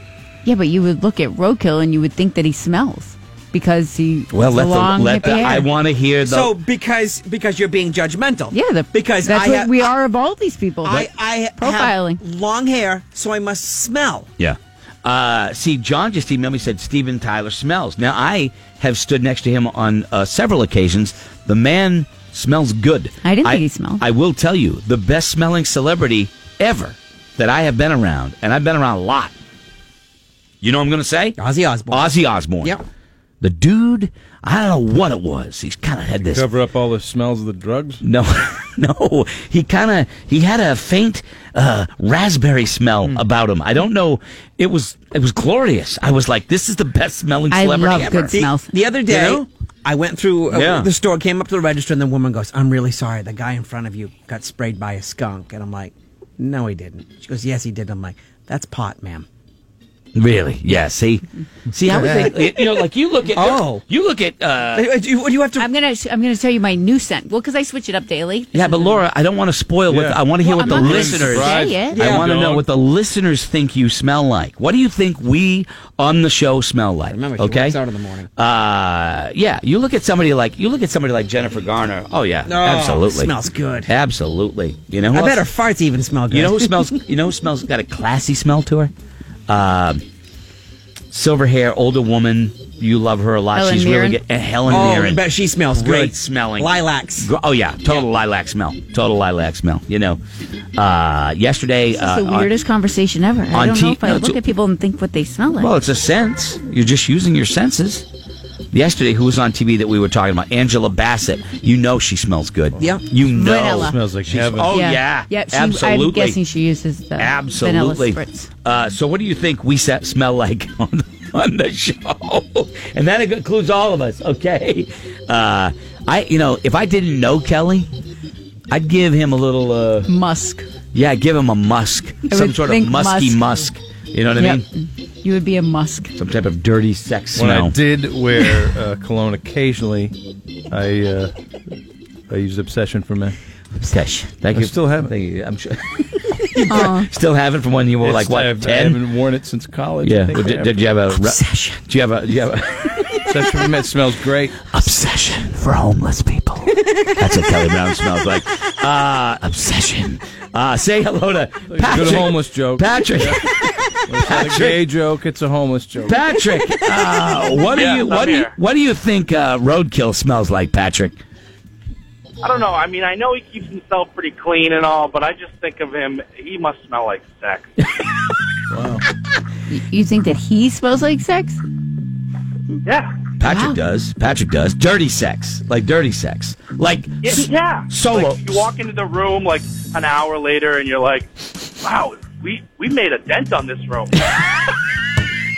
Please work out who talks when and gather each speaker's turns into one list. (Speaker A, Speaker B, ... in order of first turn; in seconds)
Speaker A: 0.4-5.7, 8.5-12.2, 23.2-24.0, 47.5-48.7, 65.6-69.1, 70.4-72.0, 93.5-94.2, 101.9-105.7, 113.3-114.0, 114.7-118.5, 130.1-130.7, 132.3-133.5, 134.4-136.1, 146.7-147.1, 151.1-151.8, 179.7-181.6, 183.4-183.8
Speaker B: 4.3-6.5, 14.4-29.3, 30.6-31.4, 31.9-32.8, 33.4-36.5, 38.0-48.4, 49.1-49.5, 50.5-50.9, 60.1-64.9, 68.5-77.8, 78.3-83.3, 83.9-85.5, 86.3-88.9, 89.5-90.0, 91.1-100.2, 100.8-102.5, 103.5-104.4, 105.6-108.1, 108.7-116.4, 117.2-127.9, 128.7-130.1, 130.9-134.7, 136.2-137.8, 143.8-149.0, 150.0-153.4, 154.6-164.8, 166.1-171.2, 183.4-188.6
Speaker C: 5.2-5.6, 6.2-9.9, 10.8-14.3, 31.4-32.8, 48.1-59.2, 61.9-62.8, 63.3-63.8, 64.7-65.7, 71.9-72.2, 77.1-78.3, 82.4-83.9, 85.1-86.8, 94.7-97.3
Speaker D: 36.2-38.0, 69.9-72.7, 113.8-114.8, 137.3-140.2, 140.7-141.3, 142.3-143.4, 144.5-145.1, 148.0-150.9, 153.2-154.6, 161.7-163.5, 164.0-166.3, 178.7-179.1
Speaker E: 167.7-168.5, 172.4-177.7, 182.8-183.1, 187.2-194.5